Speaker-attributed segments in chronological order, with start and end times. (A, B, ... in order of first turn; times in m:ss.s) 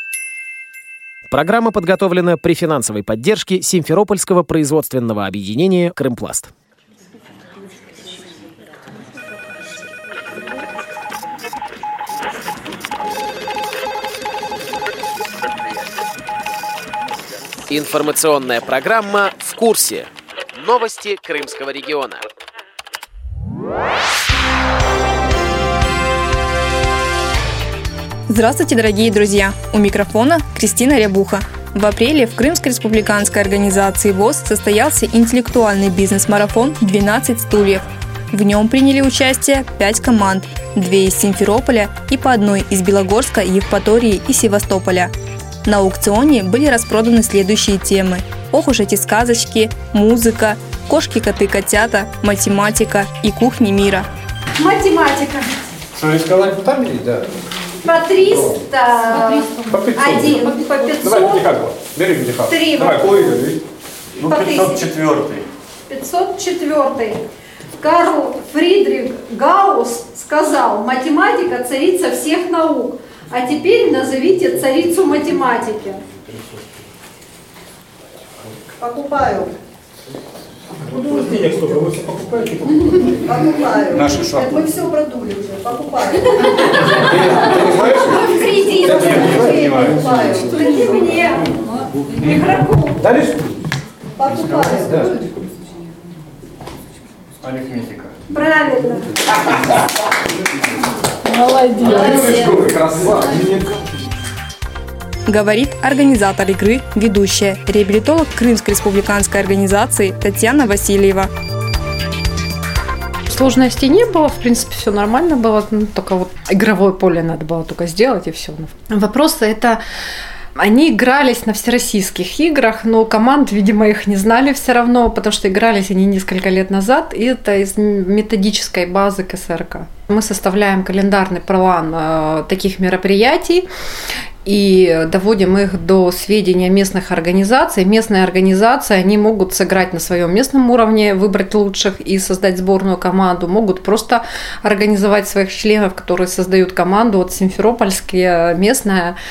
0:01.3-0:06.5 A
0:17.7-0:22.2 A
0:28.3-0:45.1 B
0:45.7-0:54.1 B
0:54.6-0:55.6 C
0:56.0-0:57.2 D
0:57.8-1:01.5 C
0:59.7-1:03.6 D
1:02.4-1:03.4 C
1:04.2-1:05.5 D
1:04.2-1:04.9 C
1:05.9-1:07.2 C
1:07.8-1:16.0 C
1:18.8-1:19.5 E
1:21.0-1:21.7 E
1:21.2-1:22.5 D
1:23.2-1:27.6 E
1:24.0-1:24.5 D
1:27.2-1:28.2 D
1:27.7-1:29.7 C
1:28.8-1:30.0 D
1:29.7-1:30.6 E
1:30.5-1:31.4 C
1:32.3-1:32.8 C
1:34.2-1:35.3 E
1:37.4-1:38.1 D
1:38.3-1:39.0 C
1:41.6-1:42.5 C
1:42.1-1:43.6 D
1:45.3-1:51.3 B
1:53.3-1:59.8 F
2:00.6-2:13.7 F
2:14.4-2:29.2 F